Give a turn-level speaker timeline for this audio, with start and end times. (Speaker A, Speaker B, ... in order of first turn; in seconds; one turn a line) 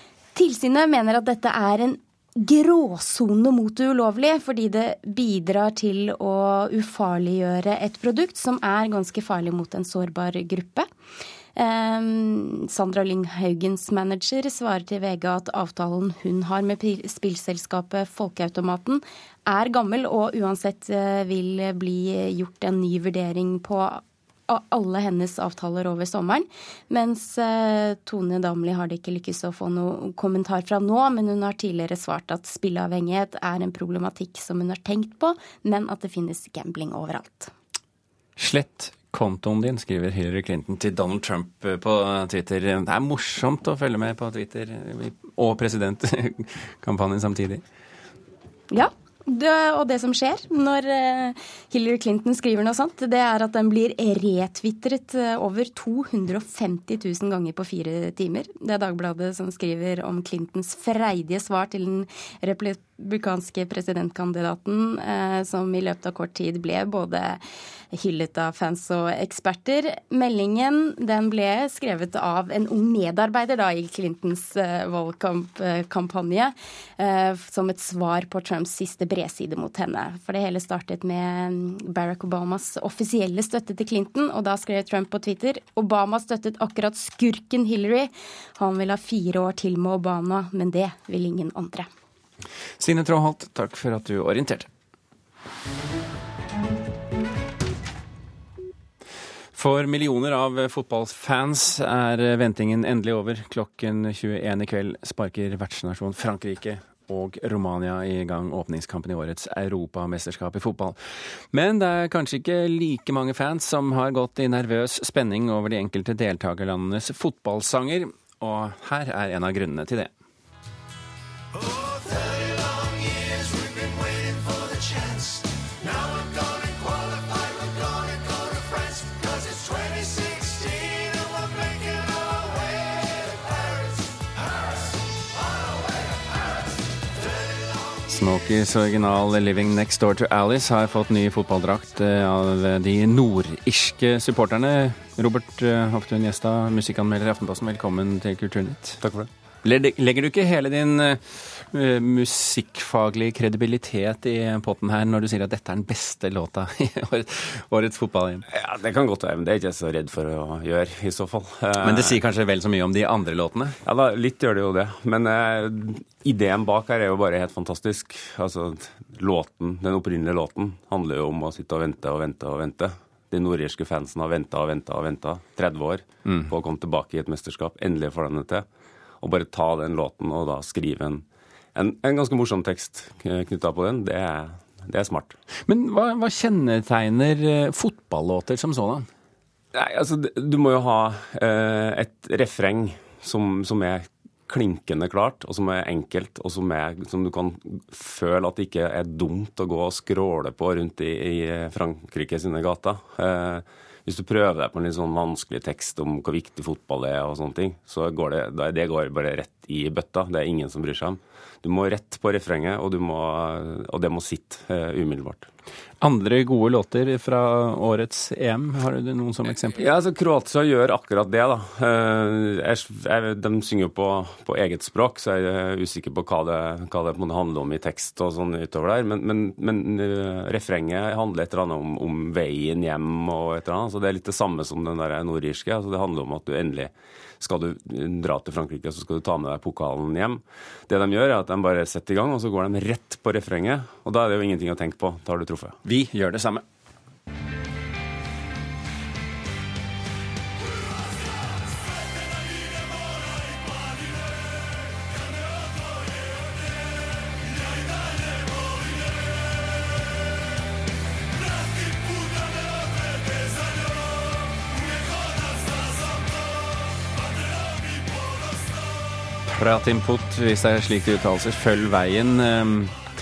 Speaker A: 0.3-10.9
Speaker A: 11.6-37.5
Speaker B: 38.4-47.6
Speaker A: 48.7-67.4
Speaker A: 67.9-91.9
Speaker B: 92.8-94.7
Speaker B: 99.5-111.0
Speaker B: 111.5-120.1
Speaker B: 138.1-149.0
Speaker C: 149.0-149.3
Speaker B: 149.6-158.4
Speaker C: 158.5-162.2
Speaker B: 161.8-163.8
Speaker C: 163.8-178.7
Speaker C: 179.2-185.3
Speaker B: 185.7-189.1
Speaker C: 189.7-215.5
Speaker B: 216.0-219.8
Speaker C: 219.7-245.8
Speaker B: 245.8-246.6
Speaker B: 269.5-272.9